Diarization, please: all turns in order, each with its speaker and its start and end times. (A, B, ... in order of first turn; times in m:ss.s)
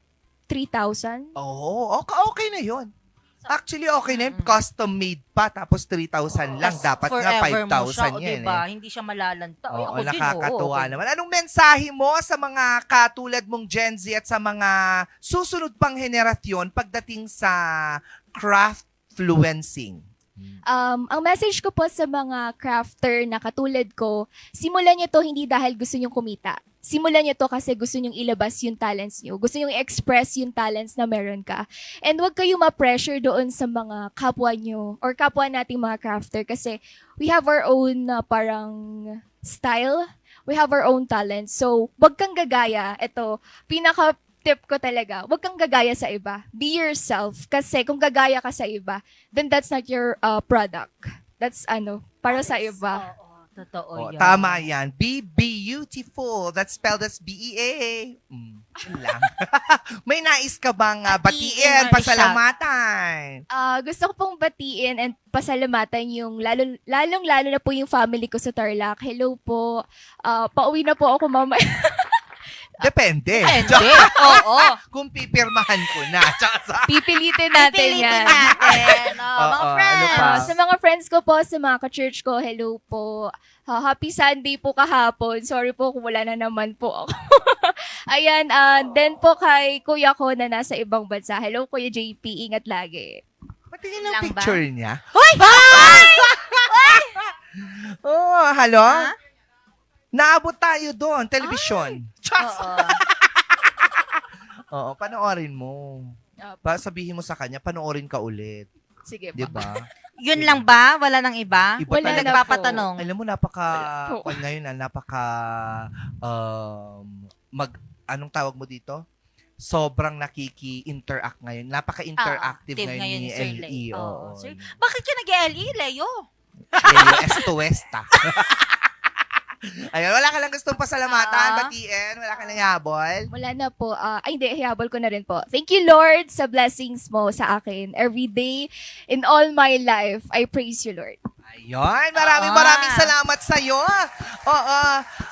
0:00.5-0:01.3 A
0:01.4-0:02.9 B
0:03.5-0:08.6 B
0:04.0-0:04.6 C
0:06.6-0:10.9 C
0:09.7-0:14.7 B
0:15.2-0:17.6 B
0:18.3-0:20.6 B
0:20.7-0:38.8 A
0:39.4-0:53.1 A
0:52.3-0:54.6 C
0:54.0-1:03.4 B
1:01.1-1:02.4 C
1:03.5-1:12.2 A
1:12.8-1:17.0 B
1:13.4-1:14.7 C
1:14.0-1:14.7 A
1:16.8-1:18.9 A
1:17.5-1:20.5 C
1:19.4-1:20.5 B
1:20.1-1:33.2 A
1:33.7-1:39.1 B
1:34.0-1:34.6 C
1:35.1-1:37.2 C
1:38.9-1:39.1 C
1:40.1-1:43.7 B
1:42.4-1:43.0 C
1:44.7-1:46.0 B
1:46.4-1:46.7 A
1:46.6-1:48.7 B
1:49.0-1:49.7 A
1:49.4-1:50.7 B
1:50.2-1:53.0 C
1:51.8-1:59.0 B
1:51.9-1:52.8 A
1:53.8-1:54.4 A
1:59.6-2:04.7 B
2:02.2-2:06.1 C
2:06.8-2:07.5 C
2:06.8-2:08.9 B
2:09.9-2:13.3 B
2:11.1-2:11.7 C
2:13.3-2:21.2 A
2:21.5-2:25.0 B
2:22.1-2:23.1 C